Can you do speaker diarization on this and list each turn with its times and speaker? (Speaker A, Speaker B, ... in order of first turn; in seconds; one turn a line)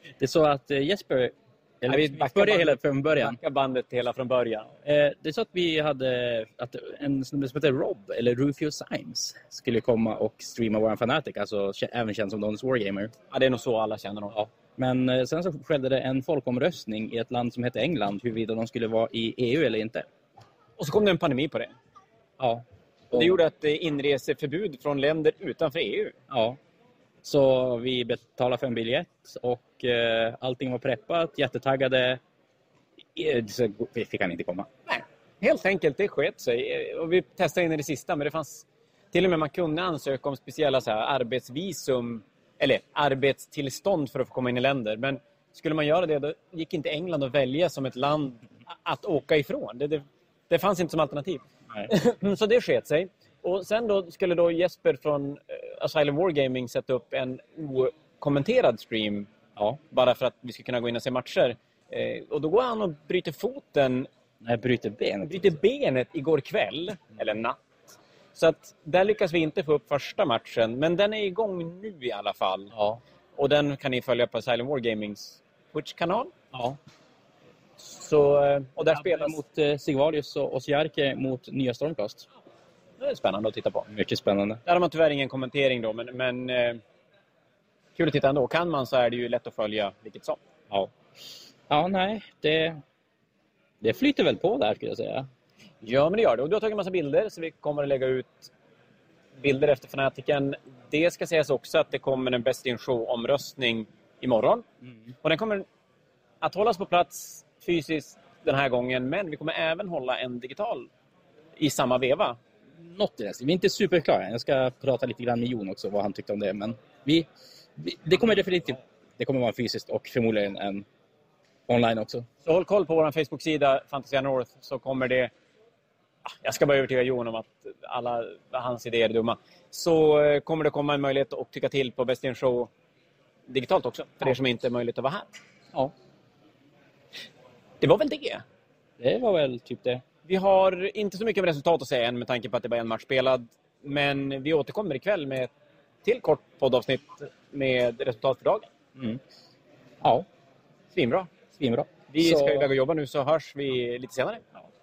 Speaker A: 0.2-3.4
Speaker B: 1.9-4.7
Speaker A: 4.8-13.1
Speaker B: 13.3-14.3
Speaker A: 14.3-20.1
Speaker B: 20.8-21.7
Speaker A: 22.4-23.4
Speaker B: 23.1-26.2
Speaker A: 26.3-26.6
Speaker A: 27.2-32.2
Speaker A: 33.1-34.7
Speaker B: 34.9-59.3
Speaker B: 59.9-64.1
Speaker A: 64.4-65.6
Speaker B: 65.2-67.6
Speaker B: 68.3-72.7
Speaker A: 72.8-73.0
Speaker B: 73.3-76.3
Speaker A: 76.5-76.8
Speaker B: 77.8-79.4
Speaker A: 78.9-82.3
Speaker B: 83.0-83.9
Speaker A: 83.9-84.6
Speaker B: 84.7-86.8
Speaker B: 88.0-90.4
Speaker A: 91.7-92.8
Speaker A: 93.8-95.2
Speaker B: 95.8-98.5
Speaker B: 99.4-104.6
Speaker B: 105.2-105.6
Speaker B: 106.4-110.9
Speaker B: 111.6-112.4
Speaker A: 112.8-117.2
Speaker A: 117.8-120.8
Speaker A: 121.7-122.2
Speaker B: 122.4-125.3
Speaker B: 126.4-132.7
Speaker B: 133.5-135.3
Speaker B: 137.8-138.4
Speaker A: 139.0-140.0
Speaker B: 140.2-145.5
Speaker B: 146.0-148.7
Speaker B: 150.9-151.3
Speaker A: 151.6-152.7
Speaker B: 152.1-154.5